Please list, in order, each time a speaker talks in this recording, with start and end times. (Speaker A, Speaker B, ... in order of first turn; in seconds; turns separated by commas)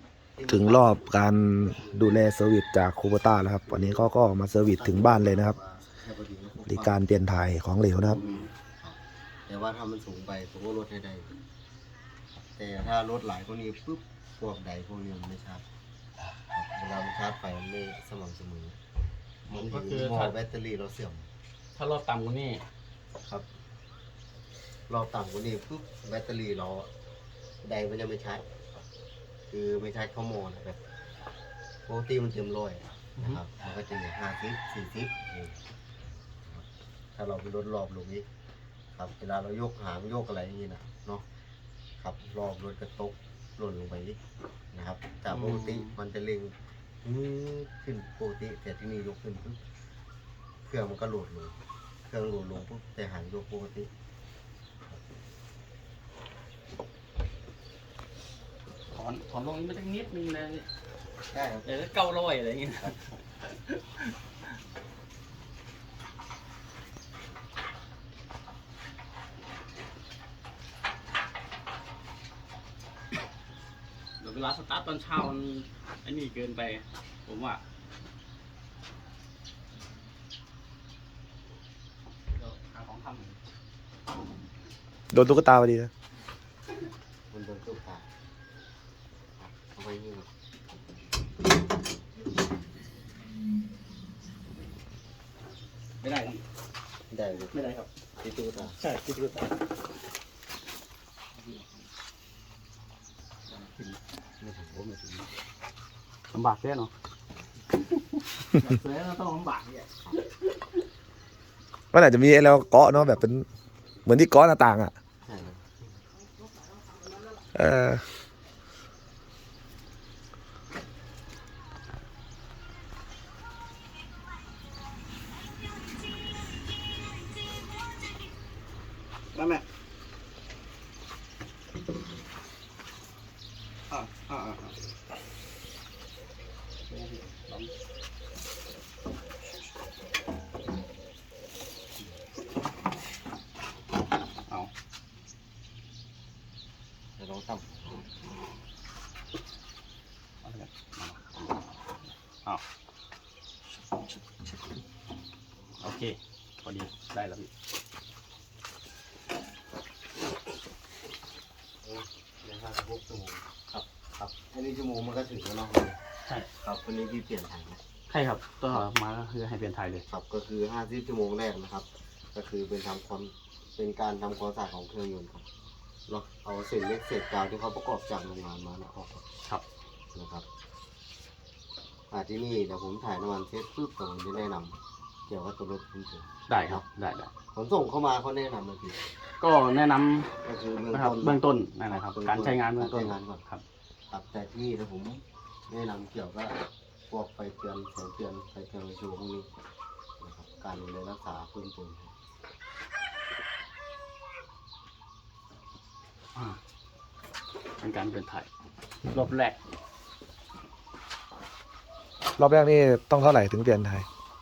Speaker A: 0.4-2.2, Speaker B: 0.5-5.5, Speaker A: 3.6-4.1, Speaker A: 4.6-7.0, Speaker B: 6.6-8.2, Speaker C: 8.1-8.5, Speaker A: 8.2-11.3, Speaker A: 12.6-15.6, Speaker A: 16.5-18.8, Speaker C: 19.5-20.3, Speaker A: 19.5-21.3, Speaker C: 21.8-22.6, Speaker A: 23.2-23.4, Speaker A: 24.9-26.9, Speaker A: 27.6-28.4, Speaker A: 29.5-30.8, Speaker A: 31.9-35.5, Speaker C: 33.1-33.4, Speaker A: 36.4-38.3, Speaker A: 39.0-41.2, Speaker A: 42.0-44.2, Speaker A: 44.7-49.6, Speaker C: 45.3-46.0, Speaker A: 50.6-51.5, Speaker A: 52.1-53.9, Speaker C: 58.9-60.7, Speaker A: 61.3-61.7, Speaker C: 61.6-64.1, Speaker C: 74.2-77.6, Speaker C: 82.3-83.4, Speaker B: 85.1-85.9, Speaker A: 87.3-88.0, Speaker A: 89.4-90.3, Speaker C: 96.0-96.4, Speaker A: 97.1-97.6, Speaker C: 97.5-97.9, Speaker A: 98.2-98.8, Speaker C: 98.8-99.4, Speaker C: 103.5-104.0, Speaker A: 104.4-105.2, Speaker C: 106.3-106.9, Speaker C: 107.8-110.3, Speaker B: 111.9-113.5, Speaker B: 114.0-114.9, Speaker A: 115.2-115.8, Speaker B: 117.5-118.0, Speaker C: 129.3-129.6, Speaker C: 133.9-134.7, Speaker C: 136.8-137.7, Speaker A: 147.2-148.0, Speaker C: 150.4-151.6, Speaker C: 155.8-157.5, Speaker A: 161.8-166.0, Speaker A: 166.6-167.8, Speaker C: 168.1-170.0, Speaker A: 170.1-175.4, Speaker A: 176.1-179.2, Speaker A: 180.1-180.4, Speaker A: 182.1-186.8, Speaker C: 186.5-187.3, Speaker A: 187.5-189.0, Speaker C: 189.4-190.3, Speaker A: 190.4-193.4, Speaker C: 190.9-193.6, Speaker A: 194.1-199.5, Speaker A: 200.2-202.1, Speaker C: 207.8-208.5, Speaker C: 209.1-209.6, Speaker B: 212.4-214.1